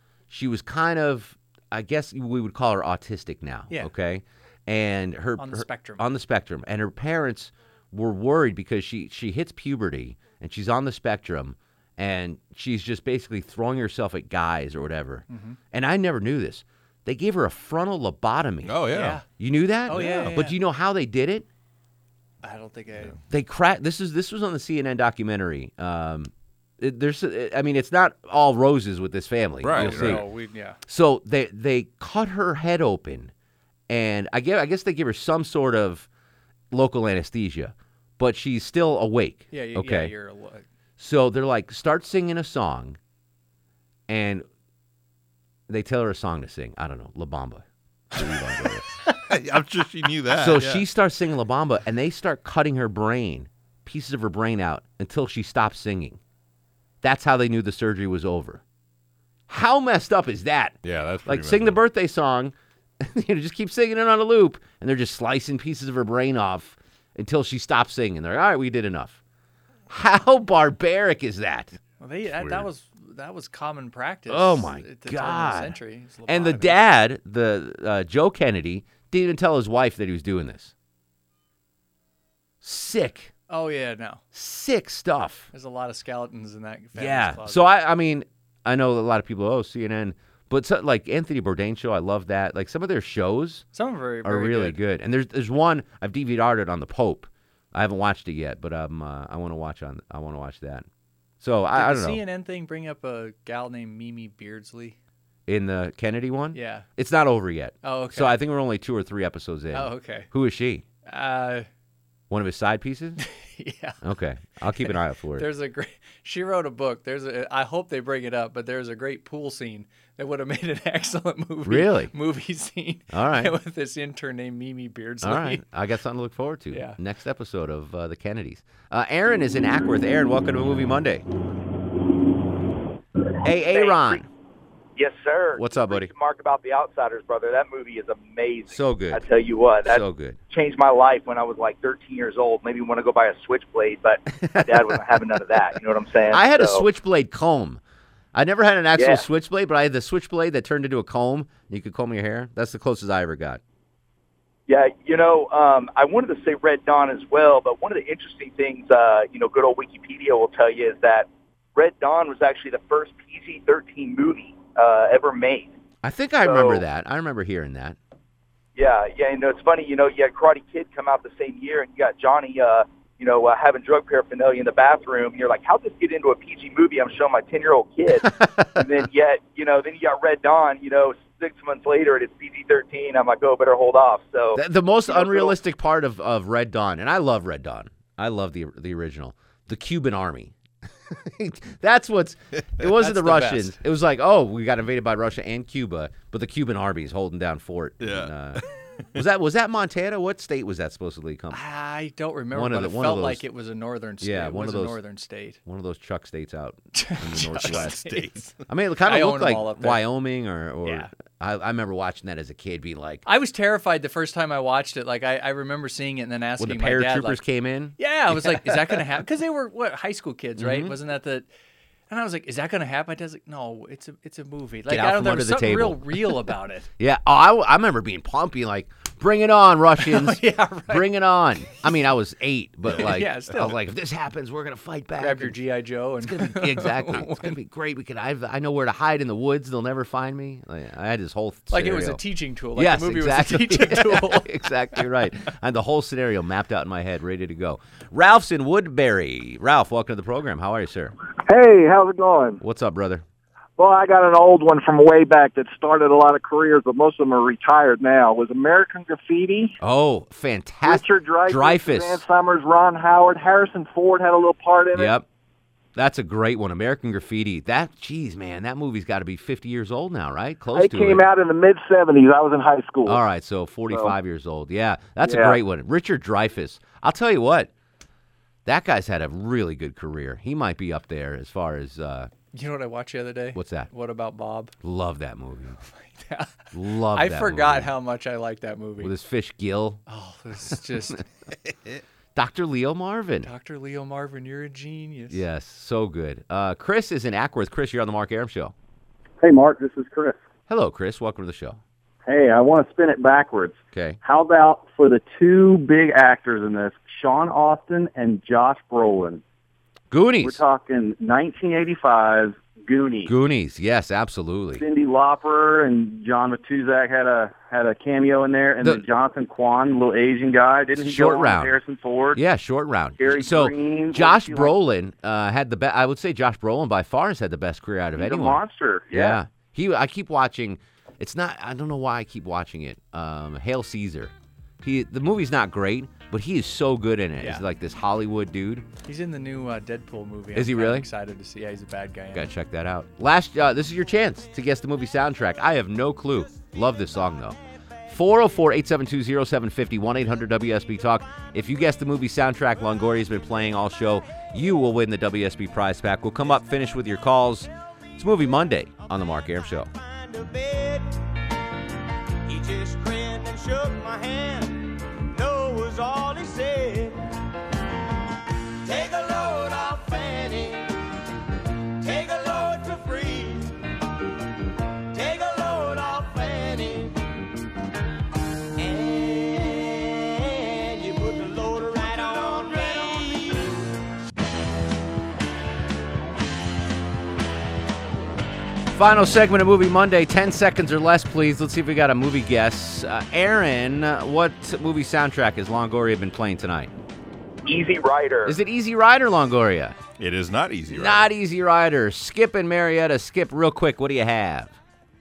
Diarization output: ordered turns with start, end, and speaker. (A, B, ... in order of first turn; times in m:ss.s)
0:00.3-0:21.5 A
0:05.4-0:06.1 B
0:15.3-0:15.6 B
0:18.6-0:19.2 C
0:18.9-0:19.3 B
0:19.9-0:20.6 B
0:19.9-0:20.3 C
0:22.4-0:23.2 B
0:23.3-0:30.3 A
0:29.6-0:30.3 C
0:29.7-0:30.8 B
0:30.9-0:33.3 A
0:33.9-0:36.1 A
0:36.7-0:40.1 A
0:39.5-0:40.6 B
0:41.0-0:43.0 A
0:44.1-0:44.4 A
0:45.7-0:48.8 A
0:49.3-0:50.8 C
0:50.3-0:56.2 A
0:57.0-0:58.6 A
0:59.5-1:09.2 A
1:00.8-1:01.8 C
1:09.9-1:11.8 A
1:12.0-1:16.8 B
1:12.3-1:12.7 C
1:14.3-1:20.7 A
1:22.6-1:23.3 A
1:23.5-1:24.2 B
1:24.3-1:25.5 A
1:25.5-1:27.7 B
1:27.0-1:33.7 A
1:33.7-1:34.8 B
1:34.2-1:40.9 A
1:41.4-1:42.2 A
1:41.7-1:45.0 B
1:45.5-1:50.9 A
1:46.5-1:46.9 B
1:47.8-1:48.4 B
1:49.7-1:50.3 B
1:51.0-1:51.7 B
1:52.3-1:53.2 A
1:53.2-1:54.0 B
1:54.0-1:55.5 A
1:54.8-2:05.6 B
2:01.6-2:02.1 A
2:03.1-2:03.6 A
2:05.2-2:11.3 A
2:06.7-2:07.0 B
2:13.4-2:14.3 A
2:13.6-2:14.2 D
2:15.0-2:26.8 D
2:15.6-2:16.1 A
2:18.7-2:19.3 A
2:19.9-2:20.4 A
2:24.3-2:24.9 A
2:26.3-2:27.8 A
2:28.3-2:33.6 A
2:29.0-2:29.2 D
2:34.7-2:45.8 D
2:46.0-2:48.0 A
2:46.4-2:46.8 D
2:48.8-2:58.2 D
2:58.2-2:58.9 A
2:58.8-3:05.6 D
3:04.6-3:10.6 A
3:11.1-3:18.6 A
3:13.0-3:13.8 B
3:18.0-3:18.3 C
3:19.2-3:21.6 A
3:21.5-3:25.6 B
3:22.5-3:23.4 A
3:24.2-3:25.0 A
3:25.7-3:28.0 A
3:26.9-3:28.5 B
3:27.6-3:28.5 C
3:28.7-3:33.3 A
3:29.0-3:30.0 B
3:30.8-3:31.1 B
3:33.3-3:37.4 B
3:36.6-3:38.8 A
3:38.0-3:41.5 B
3:40.6-3:41.0 A
3:42.1-3:46.9 B
3:44.9-3:46.3 A
3:47.0-3:55.6 A
3:50.0-3:51.1 B
3:53.0-3:53.8 B
3:55.2-3:57.6 B
3:56.2-4:02.2 A
4:01.7-4:05.0 B
4:02.8-4:11.1 A
4:11.4-4:12.6 E
4:12.6-4:13.2 A
4:13.8-4:19.8 E
4:19.8-4:22.2 A
4:20.8-4:25.1 E
4:24.9-4:25.2 A
4:26.0-4:31.3 A
4:30.7-4:33.2 E
4:33.0-4:37.7 A
4:35.2-4:35.6 E
4:38.7-4:42.3 A
4:42.5-4:44.7 B
4:43.6-4:43.9 A
4:44.8-4:45.8 A
4:45.9-4:49.1 B
4:46.7-4:47.9 A
4:49.0-4:50.0 A
4:50.1-4:51.2 B
4:52.4-4:53.5 A
4:53.4-4:55.4 B
4:55.3-4:58.7 A
4:59.4-5:00.4 F
5:00.7-5:01.8 A
5:02.3-5:09.4 F
5:03.9-5:04.2 A
5:10.1-5:10.6 A
5:10.4-5:13.3 F
5:13.3-5:14.8 A
5:14.8-5:22.4 F
5:21.0-5:21.8 A
5:22.3-5:28.6 A
5:23.2-5:24.7 F
5:28.2-5:29.4 F
5:29.1-5:38.9 A
5:37.4-5:37.7 B
5:39.0-5:42.5 B
5:40.5-5:41.1 A
5:42.3-5:59.9 A
5:59.9-6:01.1 G
6:02.5-6:07.2 G
6:08.8-6:10.9 G
6:12.0-6:13.8 G
6:15.1-6:17.2 G
6:18.8-6:23.9 G
6:28.9-6:36.9 A
6:37.7-6:38.6 D
6:38.5-6:40.0 A
6:40.2-6:41.3 C
6:40.9-6:44.8 A